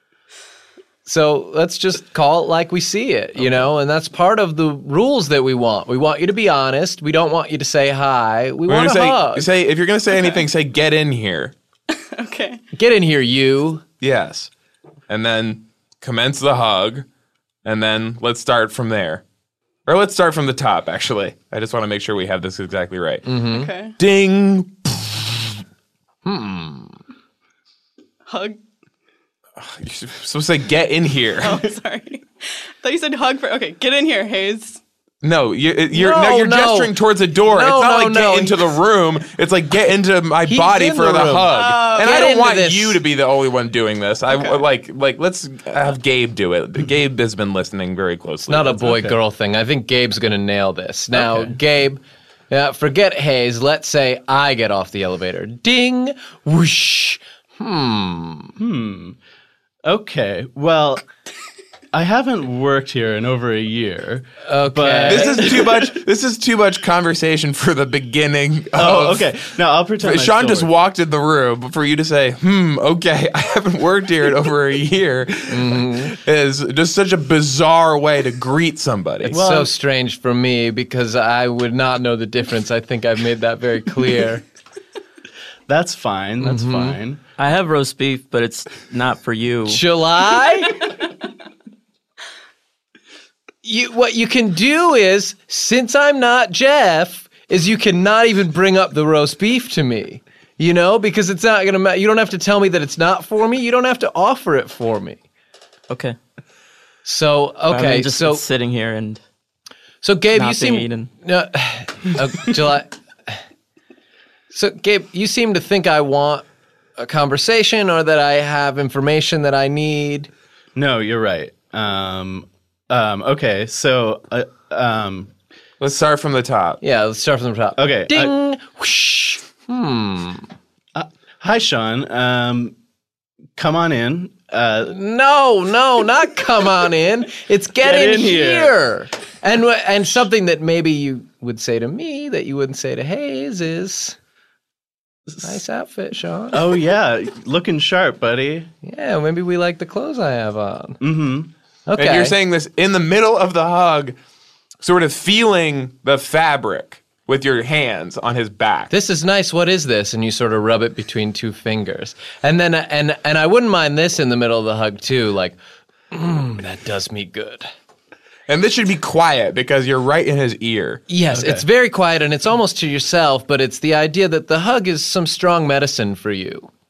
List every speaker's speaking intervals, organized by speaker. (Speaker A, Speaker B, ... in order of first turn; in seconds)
Speaker A: 1.1-9.5, 12.7-13.8, 23.2-23.7, 26.2-27.0, 35.9-38.7, 40.5-43.0, 48.5-58.5, 64.4-65.6, 75.5-76.2, 79.2-84.4, 86.4-87.0, 89.7-91.0, 93.6-105.2, 107.0-108.4, 110.0-113.4, 114.5-116.4, 117.0-120.3, 126.8-130.5, 134.8-144.2, 145.4-146.6, 148.8-151.0, 151.9-152.3, 158.9-165.6, 166.1-167.7, 171.1-176.7
Speaker B: 8.7-11.5, 14.0-14.5, 15.1-17.1, 17.6-19.2, 19.9-23.3, 24.0-25.6, 29.6-31.6, 35.2-48.9, 65.1-79.4, 125.8-126.8, 152.0-154.2, 154.8-158.9, 168.5-171.0
Speaker C: 10.1-10.4, 11.9-12.6, 23.5-23.9, 28.3-28.6, 31.4-34.8, 41.5-42.4
Speaker D: 48.7-49.2, 51.1-51.5, 58.6-59.2, 59.8-61.0, 61.9-65.9, 68.8-70.7, 79.3-79.7, 85.7-87.2, 120.7-125.3, 127.8-128.3, 130.9-132.7, 133.6-134.9, 137.8-138.8, 146.5-148.7, 151.0-151.5, 171.3-171.6
Speaker E: 87.4-89.8, 105.9-106.2, 107.7-109.2, 110.3-111.1